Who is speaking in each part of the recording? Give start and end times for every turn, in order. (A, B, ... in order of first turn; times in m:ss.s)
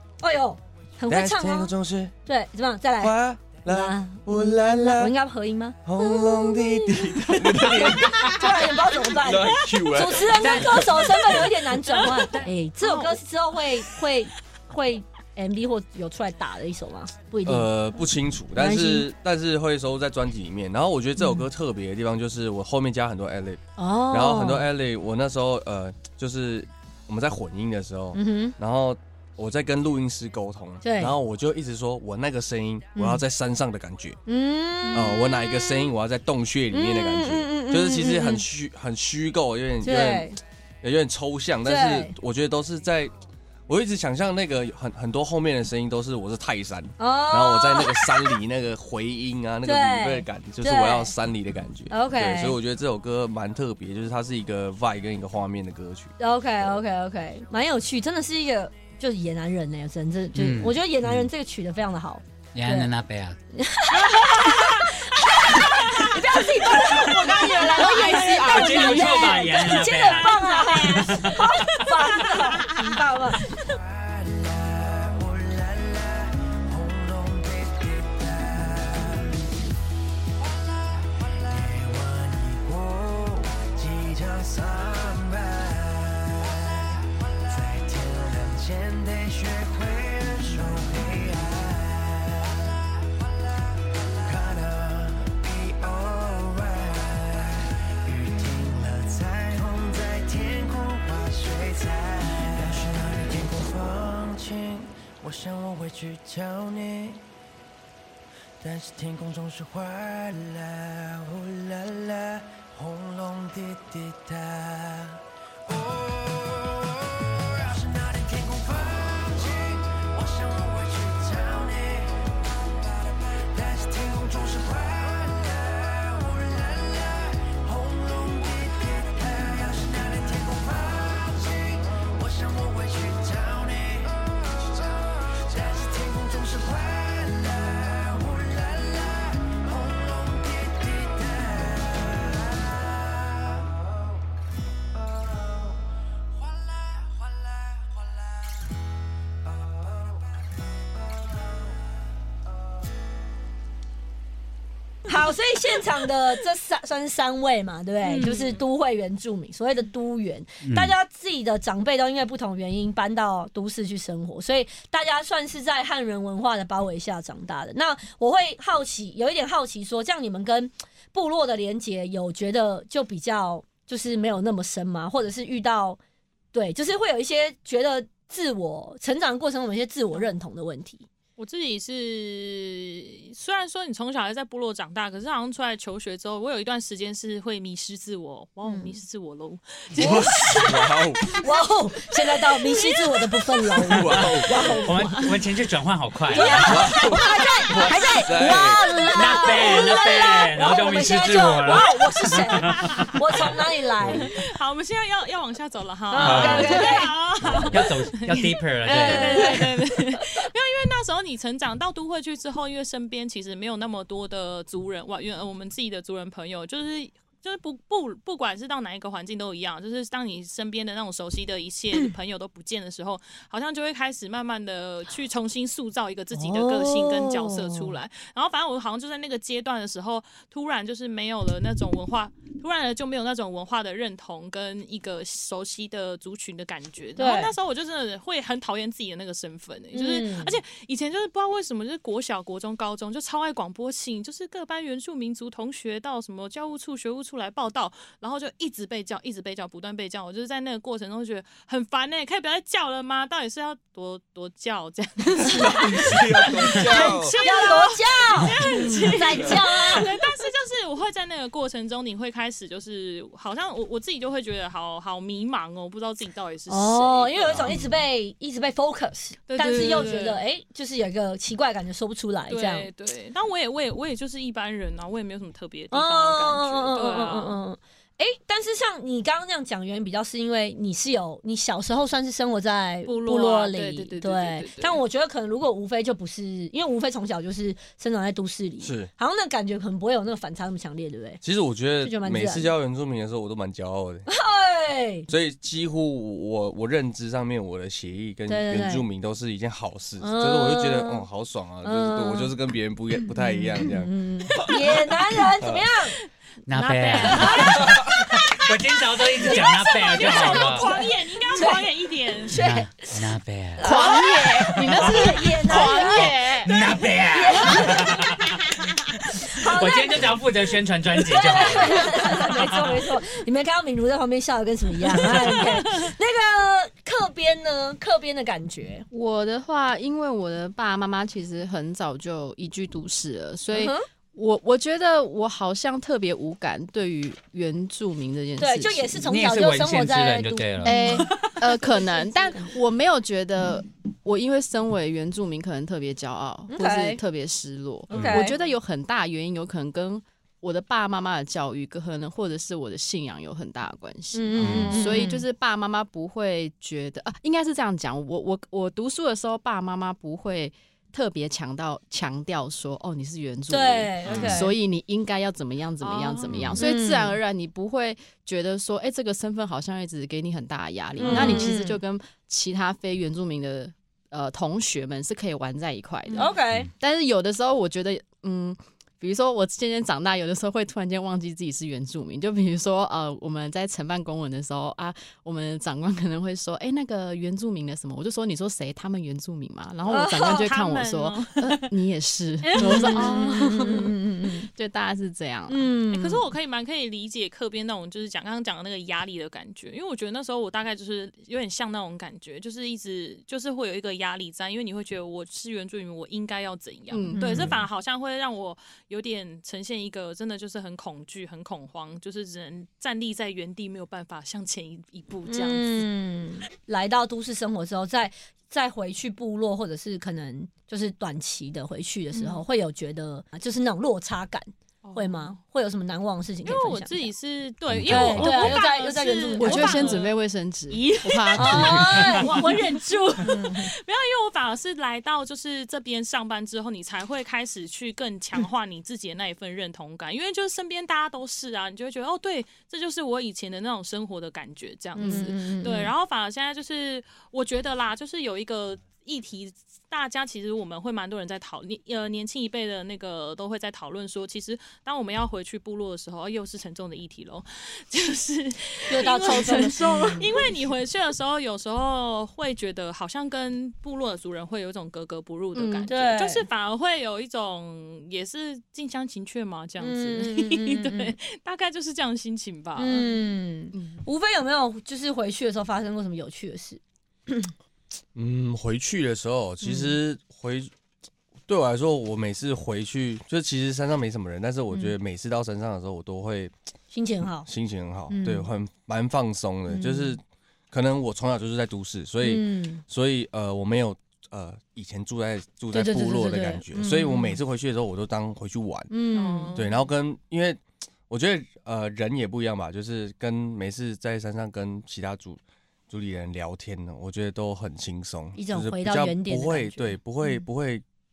0:00.2-0:01.7 A
0:01.1-0:02.1 B
0:02.2-0:17.7 A
0:03.0-0:05.1 B
0:05.8-0:11.5 B
0:11.9-0:13.2 C
0:17.4-0:34.2 B
0:18.5-0:19.1 A
0:21.2-0:21.4 A
0:23.8-0:24.7 A
0:28.1-0:28.5 A
0:30.8-0:31.2 A
0:32.9-0:33.2 A
0:34.2-0:35.9 A
0:34.9-0:40.3 B
0:36.7-0:38.4 A
0:39.8-0:40.4 A
0:40.8-0:43.1 B
0:41.6-0:42.1 A
0:43.7-0:56.1 B
0:47.0-0:48.3 A
0:49.6-0:51.1 A
0:51.9-0:52.6 A
0:56.2-1:02.9 A
1:00.3-1:01.3 D
1:02.5-1:03.4 D
1:03.5-1:13.5 A
1:03.9-1:08.6 C
1:07.0-1:09.5 E
1:08.1-1:11.9 D
1:09.8-1:12.7 C
1:13.6-1:19.3 F
1:21.3-1:32.5 F
1:34.2-1:47.2 F
1:48.6-2:23.7 F
2:26.8-2:27.4 F
2:35.1-2:56.0 A
2:38.0-2:38.6 C
2:40.6-2:40.9 D
2:56.5-3:01.1 A
3:01.4-3:10.8 C
3:08.6-3:09.0 A
3:09.9-3:11.2 B
3:10.0-3:15.3 A
3:12.7-3:13.0 C
3:13.8-3:14.8 B
3:14.1-3:17.1 D
3:16.3-3:24.3 A
3:16.3-3:16.6 C
3:16.6-3:18.9 B
3:19.1-3:23.1 D
3:22.6-4:27.8 C
3:26.1-3:27.1 A
3:26.2-3:27.0 D
3:26.2-3:26.6 B
3:27.7-3:29.7 D
3:28.8-3:30.2 A
3:46.3-3:48.0 A
3:57.2-3:57.5 A
3:59.9-4:00.6 A
4:15.5-4:17.4 B
4:15.6-4:15.8 A
4:16.8-4:20.1 A
4:26.7-4:32.9 A
4:27.4-4:27.8 B
4:29.5-4:30.4 C
4:32.5-4:37.6 C
4:35.9-4:51.4 A
4:43.0-4:44.8 C
4:48.8-4:49.1 B
4:51.4-4:54.3 B
4:52.0-4:52.7 A
4:54.3-4:55.3 A
4:55.3-5:05.0 B
4:58.5-4:59.0 A
5:00.2-5:01.2 A
5:01.8-5:02.5 A
5:03.2-5:06.2 A
5:05.6-5:05.8 B
5:06.7-5:10.9 D
5:06.7-5:07.8 C
5:07.1-5:08.0 A
5:09.4-5:12.5 C
5:09.4-5:13.2 A
5:12.5-5:14.1 D
5:13.8-5:16.4 A
5:13.8-5:16.7 E
5:14.9-5:18.7 D
5:17.3-5:18.4 A
5:19.3-5:23.0 D
5:19.4-5:20.3 A
5:21.2-5:29.1 A
5:25.3-5:25.7 C
5:29.1-5:39.3 E
5:33.7-5:34.0 A
5:38.6-5:41.5 A
5:39.3-5:41.1 D
5:40.8-6:35.9 E
5:41.1-5:41.8 C
5:46.7-5:47.2 A
5:48.1-5:48.6 A
5:48.1-5:48.4 D
5:54.3-5:55.4 A
5:54.6-5:55.1 D
5:54.9-5:55.2 C
6:03.7-6:04.7 A
6:04.3-6:04.6 D
6:06.0-6:06.8 C
6:06.8-6:07.4 A
6:11.2-6:11.7 C
6:11.2-6:12.0 A
6:16.4-6:16.9 A
6:30.1-6:30.7 A
6:30.4-6:31.9 C
6:32.6-6:33.6 C
6:32.8-6:34.7 A
6:35.7-6:36.4 A
6:36.1-6:56.1 C
6:47.1-6:47.8 E
6:47.3-6:47.8 A
6:55.5-7:07.3 A
7:02.3-7:02.6 C
7:05.0-7:05.6 C
7:06.6-7:53.3 C
7:08.0-7:08.7 D
7:08.0-7:08.3 B
7:08.1-7:10.2 A
7:09.6-7:12.7 E
7:11.6-7:13.9 A
7:25.2-7:25.5 E
7:25.2-7:26.1 A
7:39.1-7:40.4 A
7:39.5-7:40.5 E
7:45.7-7:46.1 E
7:46.1-7:46.7 A
7:50.0-7:51.4 A
7:53.0-7:57.7 A
7:53.9-7:54.2 E
7:58.3-8:00.9 B
7:59.8-8:00.1 A
8:01.7-8:06.7 B
8:07.1-8:07.7 A
8:07.6-8:19.1 B
8:08.3-8:08.7 A
8:09.9-8:10.4 A
8:12.4-8:13.0 A
8:15.9-8:17.6 A
8:19.1-8:19.8 A
8:19.3-8:20.0 C
8:19.7-8:31.0 B
8:28.5-8:30.5 A